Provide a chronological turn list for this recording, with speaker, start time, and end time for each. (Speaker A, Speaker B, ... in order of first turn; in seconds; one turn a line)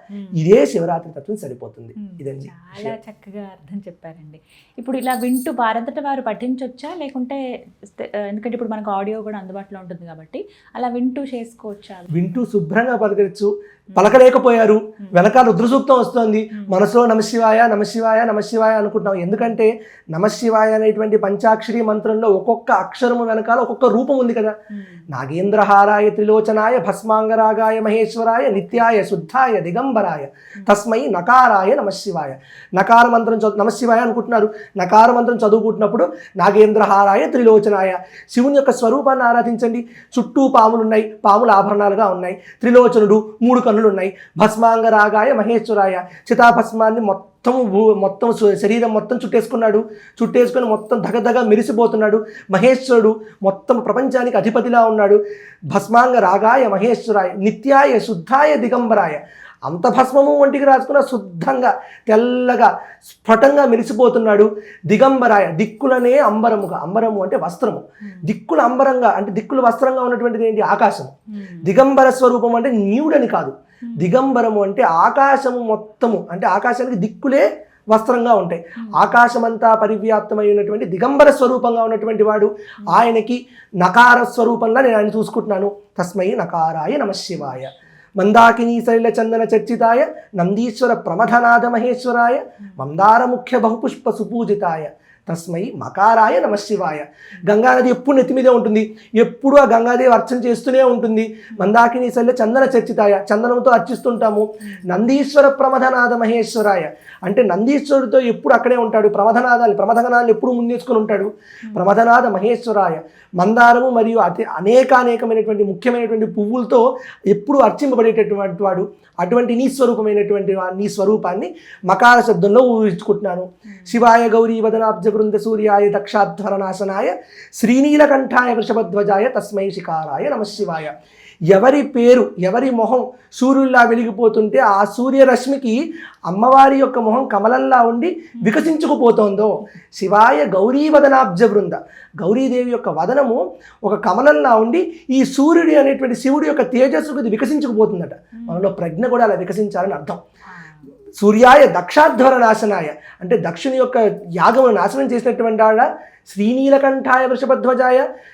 Speaker A: 0.3-3.0
Speaker B: 2.0-12.3
Speaker A: 12.1-24.5
Speaker B: 24.8-25.0
Speaker A: 25.1-55.2
Speaker A: 55.7-130.9
Speaker B: 71.3-71.7
Speaker B: 78.8-79.2
Speaker B: 104.7-104.9
Speaker B: 123.7-124.0
Speaker A: 131.5-150.2
Speaker B: 138.4-138.7
Speaker B: 148.4-148.7
Speaker B: 150.5-150.8
Speaker A: 151.2-158.0